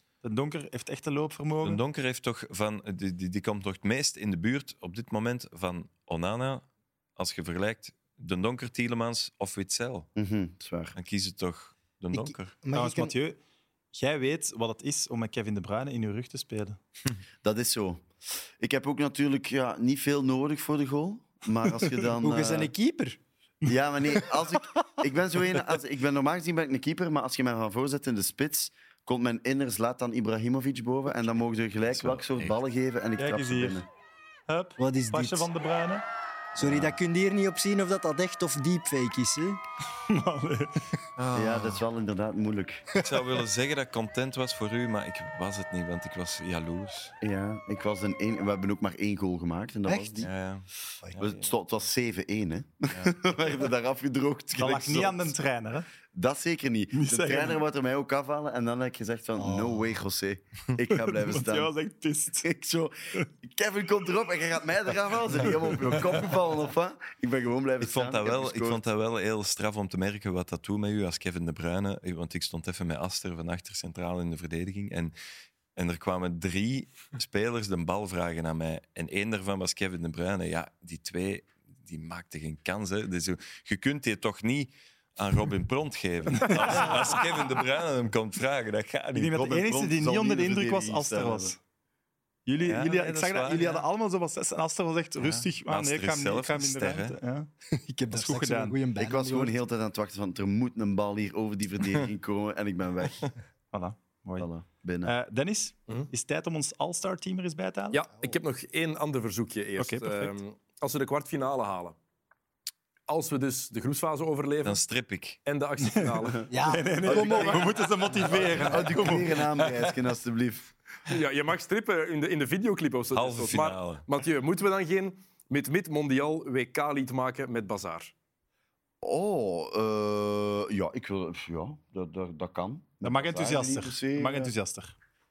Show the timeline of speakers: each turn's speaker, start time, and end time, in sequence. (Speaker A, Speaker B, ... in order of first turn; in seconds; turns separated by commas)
Speaker A: 0.2-1.8, Speaker B: 1.6-6.7, Speaker B: 7.2-10.1, Speaker C: 10.2-10.9, Speaker B: 10.9-12.6, Speaker D: 12.1-13.1, Speaker A: 12.7-13.4, Speaker A: 13.9-16.8, Speaker C: 17.4-18.1, Speaker C: 18.6-22.7, Speaker D: 22.2-23.2, Speaker C: 23.6-33.9, Speaker B: 31.9-32.6, Speaker A: 33.2-33.8, Speaker A: 34.5-36.0, Speaker D: 34.8-35.5, Speaker D: 36.6-39.6, Speaker B: 36.6-36.9, Speaker A: 40.1-41.0, Speaker C: 41.3-42.9, Speaker B: 43.0-47.1, Speaker C: 47.2-50.3, Speaker D: 49.9-50.3, Speaker B: 50.2-51.5, Speaker C: 51.2-55.3, Speaker B: 52.9-53.2, Speaker A: 54.6-55.9, Speaker C: 56.1-61.7, Speaker A: 56.9-57.6, Speaker D: 59.4-59.9, Speaker A: 61.2-62.5, Speaker C: 62.4-68.8, Speaker B: 67.8-75.1, Speaker B: 75.8-89.3, Speaker A: 86.4-86.9, Speaker A: 89.1-91.6, Speaker C: 89.3-91.6, Speaker A: 92.5-97.5, Speaker B: 92.6-93.9, Speaker B: 95.2-97.2, Speaker D: 97.8-99.5, Speaker A: 98.1-98.8, Speaker C: 99.0-103.3, Speaker A: 103.7-104.5, Speaker C: 104.4-105.1, Speaker A: 105.0-108.0, Speaker E: 107.9-112.0, Speaker A: 109.8-110.4, Speaker E: 113.1-114.8, Speaker B: 114.6-115.4, Speaker E: 115.5-116.5, Speaker A: 115.8-116.1, Speaker D: 116.5-117.8, Speaker A: 116.6-119.4, Speaker E: 117.1-117.6, Speaker C: 117.1-117.6, Speaker C: 118.3-120.7, Speaker E: 121.1-128.1, Speaker B: 123.1-124.0, Speaker C: 129.0-134.5, Speaker A: 133.0-134.9